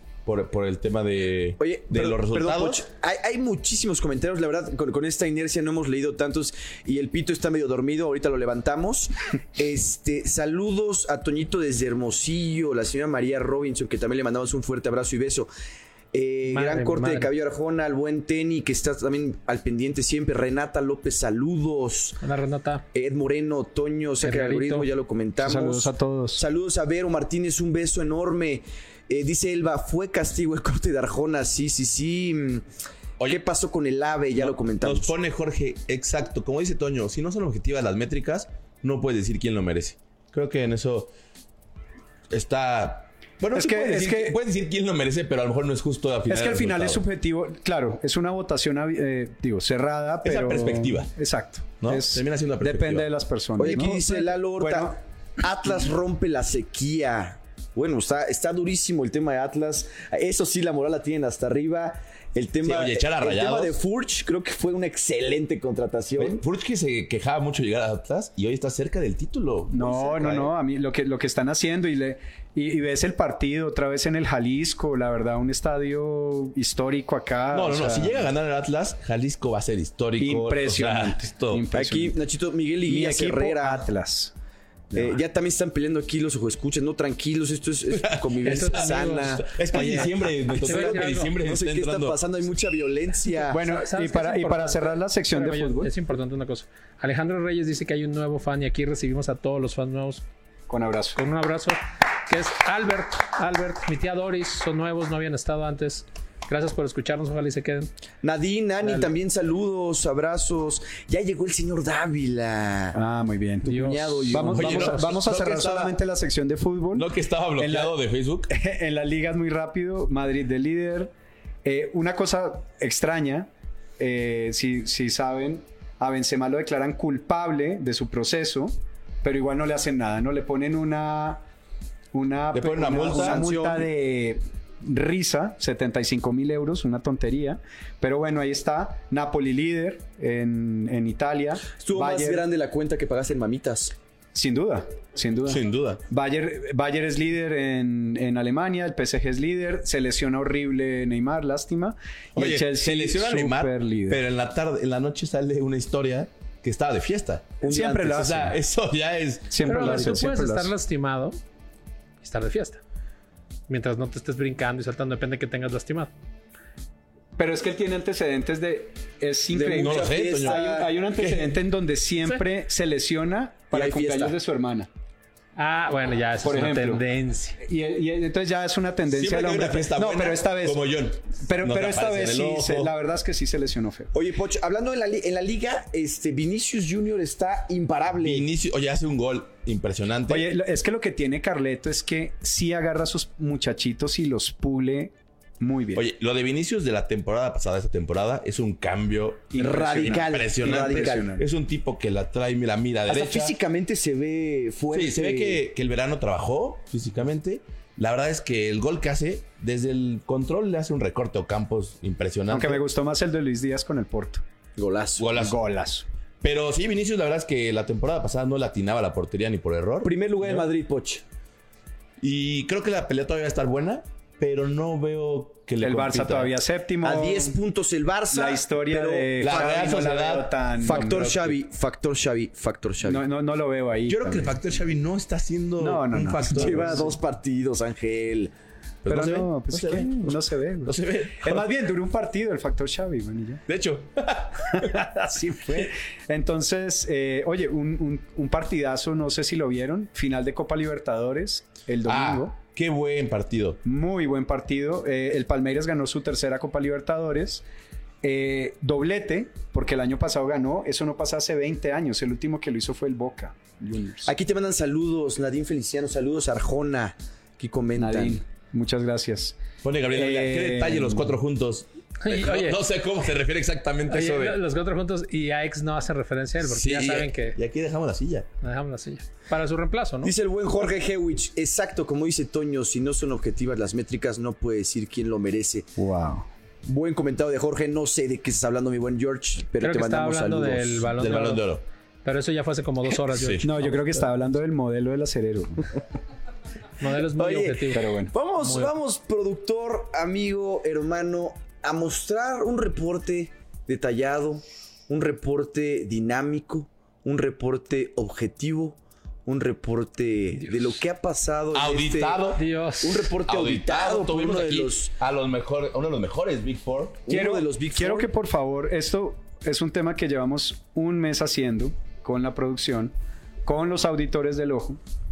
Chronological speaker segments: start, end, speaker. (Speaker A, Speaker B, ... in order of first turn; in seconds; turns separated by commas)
Speaker A: 0.2-2.8, Speaker B: 1.6-15.5, Speaker B: 16.1-22.2, Speaker C: 16.5-17.3, Speaker C: 22.2-22.8, Speaker B: 22.9-32.6, Speaker C: 24.2-24.9, Speaker D: 25.4-26.4, Speaker B: 33.2-35.1, Speaker A: 34.4-41.1, Speaker A: 42.3-47.0, Speaker D: 43.5-44.4, Speaker D: 46.3-55.0, Speaker A: 50.2-51.1, Speaker A: 51.8-53.1, Speaker B: 53.6-66.4, Speaker A: 62.6-63.7, Speaker A: 66.2-70.5, Speaker D: 69.7-78.3, Speaker A: 77.5-81.7, Speaker D: 80.2-82.2, Speaker B: 81.7-83.8, Speaker D: 82.9-84.3, Speaker D: 84.9-85.2, Speaker B: 84.9-90.1, Speaker A: 87.9-92.2, Speaker C: 88.4-91.3, Speaker B: 90.6-93.6, Speaker D: 93.5-95.9, Speaker C: 93.6-100.2, Speaker D: 100.7-101.2, Speaker C: 101.2-107.9, Speaker B: 108.2-113.0, Speaker D: 112.9-118.0, Speaker B: 113.7-115.0, Speaker C: 113.7-114.4, Speaker A: 114.5-116.0, Speaker A: 116.9-118.5, Speaker D: 118.5-121.1, Speaker D: 121.6-131.4, Speaker D: 132.1-142.4, Speaker A: 132.5-133.4, Speaker B: 133.0-133.9, Speaker B: 141.8-143.9, Speaker D: 144.3-154.2, Speaker A: 145.5-146.0, Speaker A: 152.3-160.2, Speaker D: 157.6-158.6, Speaker B: 157.6-158.2, Speaker D: 159.5-160.7, Speaker C: 159.6-161.4, Speaker C: 162.2-162.8, Speaker C: 163.7-166.1, Speaker D: 167.4-174.9, Speaker B: 169.5-170.9, Speaker A: 169.7-170.6, Speaker A: 171.2-171.5, Speaker B: 173.7-174.3, Speaker C: 175.6-177.6, Speaker D: 176.4-177.0, Speaker D: 177.6-180.8, Speaker A: 179.1-182.9, Speaker D: 181.4-184.1, Speaker B: 184.1-188.5, Speaker A: 188.2-190.5, Speaker D: 190.3-196.0, Speaker A: 195.9-203.5, Speaker D: 199.5-201.4, Speaker B: 199.6-201.3, Speaker B: 203.1-205.6, Speaker A: 204.9-212.8, Speaker D: 212.5-214.4, Speaker B: 214.8-215.3, Speaker A: 215.2-215.6, Speaker D: 215.3-216.1, Speaker A: 216.4-220.7, Speaker B: 220.0-221.2, Speaker A: 222.2-226.6, Speaker D: 225.8-227.6, Speaker B: 227.0-229.6, Speaker D: 228.3-231.3, Speaker A: 229.4-231.6, Speaker B: 230.8-233.2, Speaker D: 233.0-234.5, Speaker A: 234.1-237.1, Speaker D: 235.8-237.1, Speaker B: 236.5-238.5, Speaker A: 239.0-241.7, Speaker D: 239.1-243.6, Speaker A: 243.7-245.2, Speaker D: 244.8-252.5, Speaker A: 252.1-253.8, Speaker D: 253.8-257.6, Speaker D: 258.2-264.3, Speaker B: 264.2-268.4, Speaker D: 268.0-269.6, Speaker A: 269.8-274.6, Speaker D: 270.1-271.3, Speaker C: 272.2-272.8, Speaker C: 274.1-277.6, Speaker A: 276.6-278.5, Speaker C: 278.6-280.3, Speaker B: 280.2-285.9, Speaker D: 286.0-286.5, Speaker B: 286.8-291.1, Speaker C: 289.8-291.7, Speaker A: 291.1-291.8, Speaker C: 292.2-294.2, Speaker A: 293.3-293.7, Speaker D: 293.6-295.9, Speaker C: 297.0-298.9, Speaker B: 297.2-315.1, Speaker D: 297.9-298.3, Speaker A: 311.7-312.6, Speaker C: 312.5-313.3, Speaker A: 313.4-317.2, Speaker B: 317.2-318.3, Speaker D: 317.3-325.0